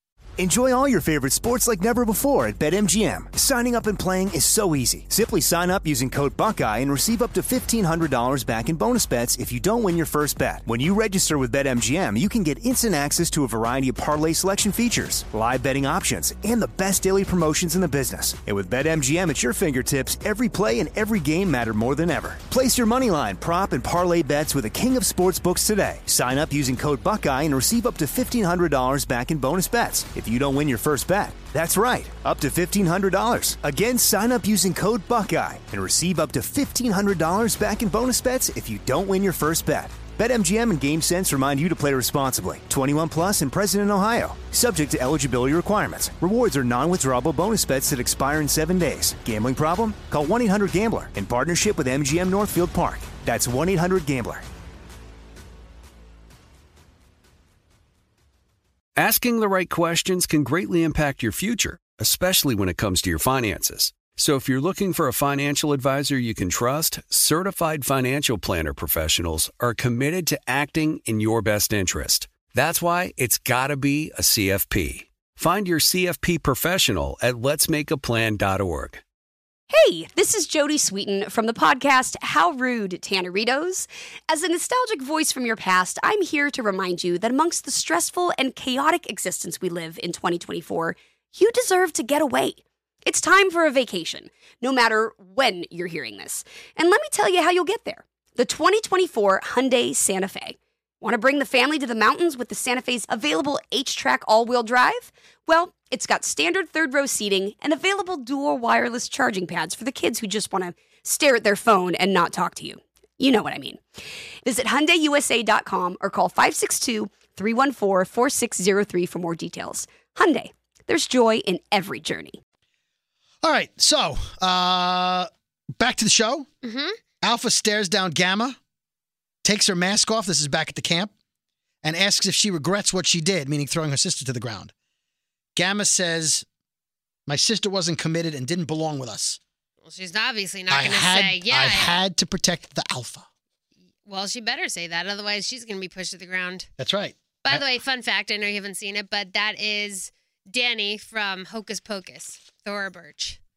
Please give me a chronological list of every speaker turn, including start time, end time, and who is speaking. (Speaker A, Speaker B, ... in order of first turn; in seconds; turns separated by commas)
Speaker A: 0.4-54.4, Speaker B: 59.0-79.0, Speaker C: 79.7-113.8, Speaker C: 114.5-122.4, Speaker D: 123.4-126.5, Speaker E: 126.6-127.0, Speaker D: 127.2-128.6, Speaker D: 129.4-131.1, Speaker D: 131.8-134.7, Speaker D: 135.6-136.5, Speaker D: 137.3-139.4, Speaker E: 139.8-142.0, Speaker D: 140.7-143.3, Speaker E: 144.1-146.7, Speaker D: 146.8-147.6, Speaker E: 147.4-153.4